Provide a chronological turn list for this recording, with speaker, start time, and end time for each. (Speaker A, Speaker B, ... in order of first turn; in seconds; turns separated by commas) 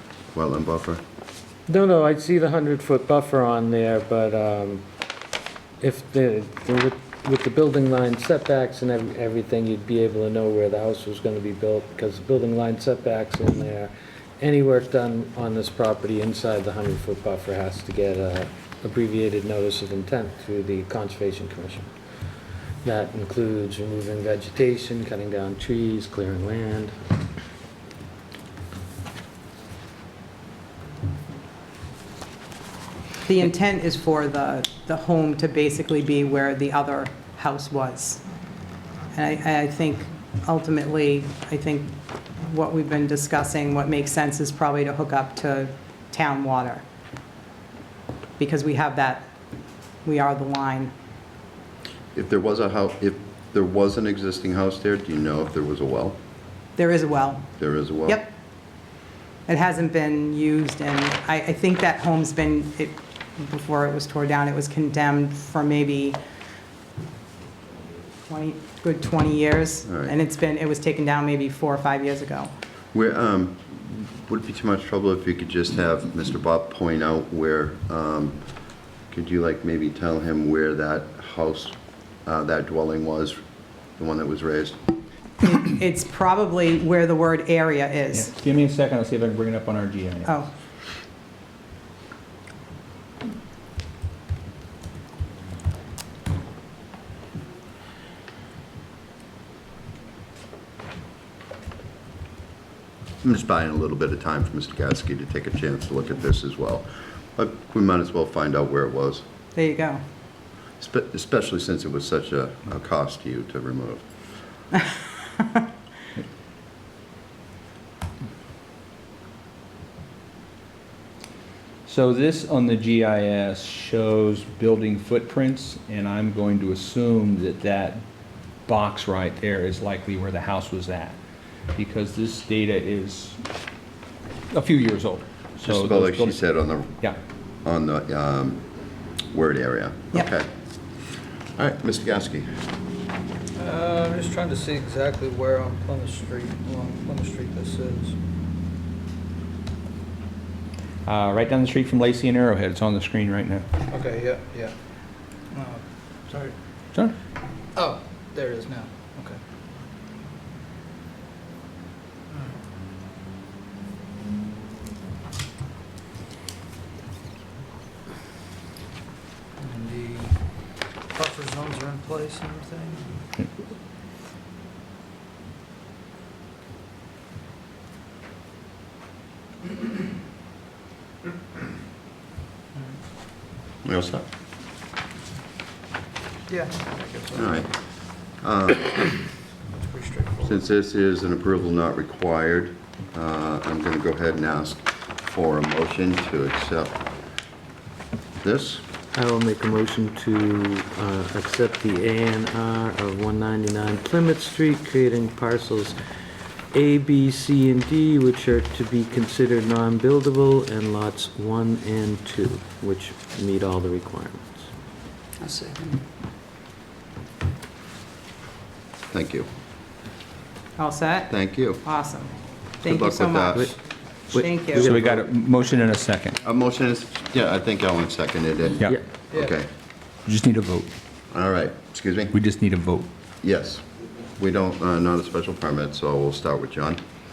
Speaker A: 0.3-1.0, Speaker B: 1.7-4.8, Speaker B: 5.8-21.9, Speaker B: 22.8-26.9, Speaker C: 33.2-38.2, Speaker C: 39.1-46.8, Speaker C: 48.4-49.3, Speaker C: 50.0-50.9, Speaker A: 52.1-56.2, Speaker C: 56.8-57.5, Speaker A: 57.6-58.2, Speaker C: 58.0-58.3, Speaker C: 59.5-66.2, Speaker C: 68.3-72.5, Speaker A: 69.8-70.1, Speaker A: 72.9-78.4, Speaker A: 79.1-83.4, Speaker A: 84.0-84.8, Speaker C: 85.4-88.3, Speaker D: 88.1-90.3, Speaker A: 103.2-109.2, Speaker C: 109.5-110.0, Speaker A: 110.8-114.0, Speaker D: 121.8-128.0, Speaker D: 128.7-131.2, Speaker D: 131.7-133.4, Speaker D: 134.5-136.4, Speaker A: 135.6-137.0, Speaker A: 137.6-138.6, Speaker A: 139.3-140.5, Speaker A: 141.6-142.5, Speaker E: 143.6-148.2, Speaker D: 151.1-153.7, Speaker E: 153.9-154.7, Speaker E: 155.5-156.6, Speaker E: 157.7-159.4, Speaker E: 169.6-170.4, Speaker E: 171.1-173.1, Speaker A: 183.8-184.3, Speaker E: 186.5-187.6, Speaker A: 187.3-189.2, Speaker E: 189.9-190.6, Speaker A: 190.4-197.0, Speaker A: 198.4-198.8, Speaker B: 199.1-205.9, Speaker B: 206.7-214.7, Speaker A: 219.1-219.5, Speaker C: 220.8-223.7, Speaker A: 221.3-221.8, Speaker A: 222.8-223.7, Speaker B: 224.3-225.3, Speaker C: 224.3-224.9, Speaker D: 224.3-226.4, Speaker A: 226.4-229.7, Speaker D: 230.2-230.9, Speaker A: 231.3-232.3, Speaker D: 232.3-233.1, Speaker A: 233.4-233.8, Speaker A: 234.4-237.0